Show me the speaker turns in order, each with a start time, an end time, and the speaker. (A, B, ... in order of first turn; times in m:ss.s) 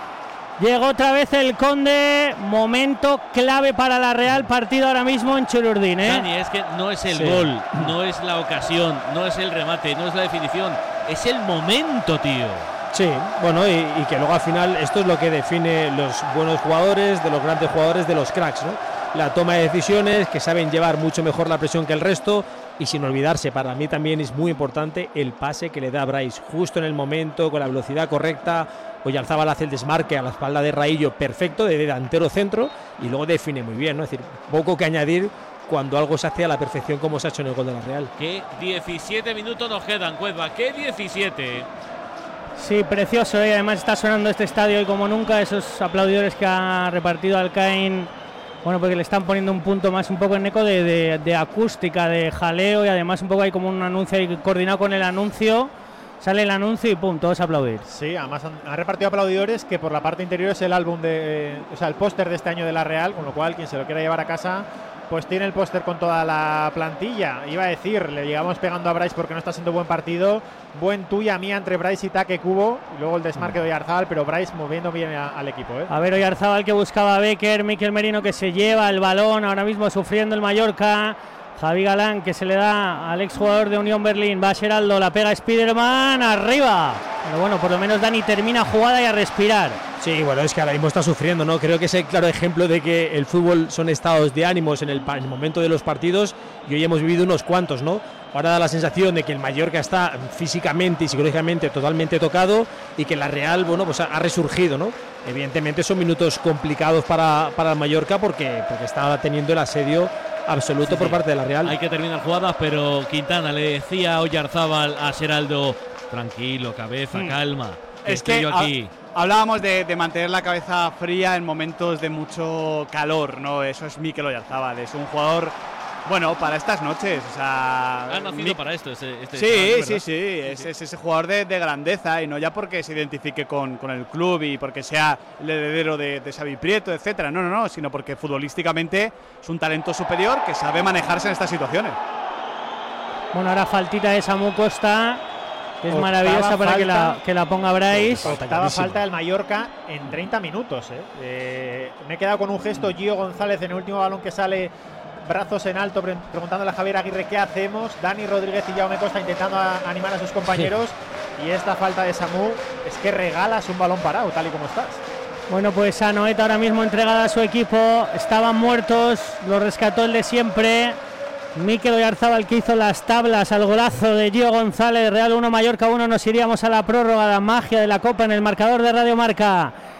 0:00.6-0:06.3 A
0:06.0-0:12.7 B
0:07.1-0:07.9 C
0:12.9-0:38.1 C
0:38.2-0:41.7 B
0:42.6-0:48.1 A
0:48.6-0:57.8 A
0:57.9-1:15.9 D
1:15.9-1:29.8 A
1:30.0-1:51.8 C
1:50.8-1:58.9 B
1:58.0-2:08.6 E
2:08.1-2:10.7 B
2:09.3-2:22.0 E
2:23.3-2:25.2 A
2:25.8-2:28.3 A
2:25.9-2:27.2 D
2:28.0-2:29.0 C
2:28.2-2:34.7 D
2:35.2-2:45.0 D
2:45.5-2:51.0 A
2:51.6-2:59.7 A